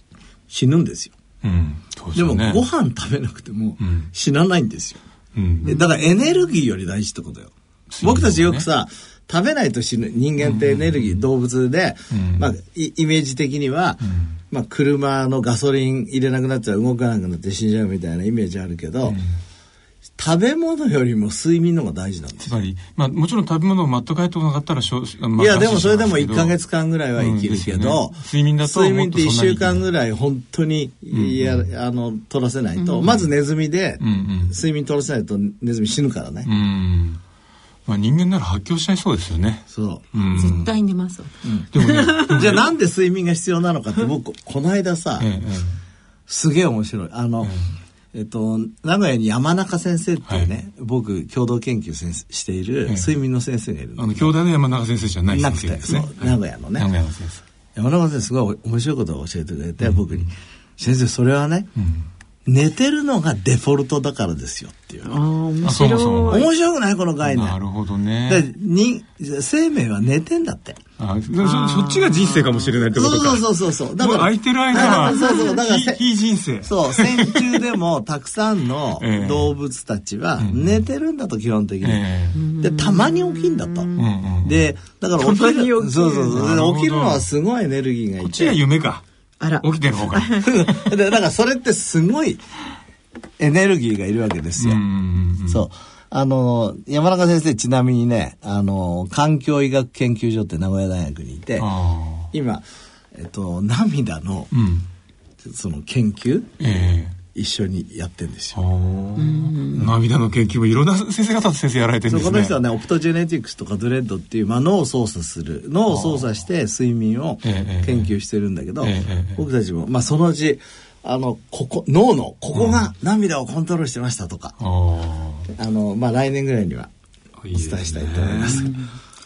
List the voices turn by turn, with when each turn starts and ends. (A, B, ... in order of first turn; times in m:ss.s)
0:00.5-0:01.2 A
0:01.4-0:02.6 B
0:02.1-0:05.0 A
0:03.8-0:04.1 B
0:05.3-0:05.8 B
0:05.6-0:19.2 A
0:07.9-0:08.6 B
0:10.4-0:11.2 B
0:12.1-0:12.5 B
0:14.0-0:14.3 B
0:19.0-0:19.4 B
0:20.2-0:22.5 A
0:22.4-0:26.6 B
0:25.4-0:36.5 A
0:27.2-0:29.8 B
0:31.1-0:31.7 B
0:33.0-0:33.3 B
0:34.0-0:34.6 B
0:36.4-0:37.2 B
0:37.8-0:40.7 B
0:39.7-0:40.0 A
0:40.3-0:42.3 C
0:41.4-0:41.7 A
0:41.7-0:42.7 B
0:42.2-0:45.3 A
0:45.2-0:45.8 B
0:46.3-0:47.5 A
0:47.4-0:47.7 B
0:48.1-0:54.3 A
0:54.0-0:57.4 B
0:55.3-0:56.9 A
0:57.8-1:01.7 A
0:59.8-1:00.3 B
1:01.8-1:02.1 B
1:02.4-1:05.1 A
1:05.0-1:06.5 C
1:05.6-1:06.4 B
1:06.3-1:07.6 A
1:07.2-1:08.5 B
1:08.3-1:10.8 A
1:11.0-1:17.6 B
1:11.4-1:12.9 C
1:12.9-1:16.0 A
1:14.7-1:15.5 C
1:16.6-1:22.0 A
1:19.0-1:19.5 B
1:20.4-1:20.8 B
1:21.8-1:22.4 B
1:22.3-1:24.0 C
1:22.6-1:23.9 A
1:24.0-1:24.7 B
1:24.4-1:28.6 A
1:25.2-1:27.3 B
1:28.2-1:29.0 B
1:29.4-1:30.4 C
1:29.6-1:30.9 B
1:30.4-1:32.4 A
1:33.4-1:34.8 A
1:34.6-1:35.6 B
1:35.5-1:41.7 A
1:41.6-1:42.3 B
1:42.3-1:44.5 A
1:44.5-1:44.9 B
1:45.4-1:46.5 A
1:46.6-1:47.2 B
1:47.2-1:48.6 A
1:48.5-1:52.6 B
1:49.2-1:49.9 C
1:52.1-2:04.5 A
1:55.9-1:56.3 B
1:57.4-1:58.1 B
1:58.8-1:59.4 B
2:02.5-2:02.8 B
2:04.6-2:05.5 B
2:05.5-2:06.9 A
2:07.4-2:08.8 B
2:07.5-2:08.7 A
2:08.5-2:08.8 C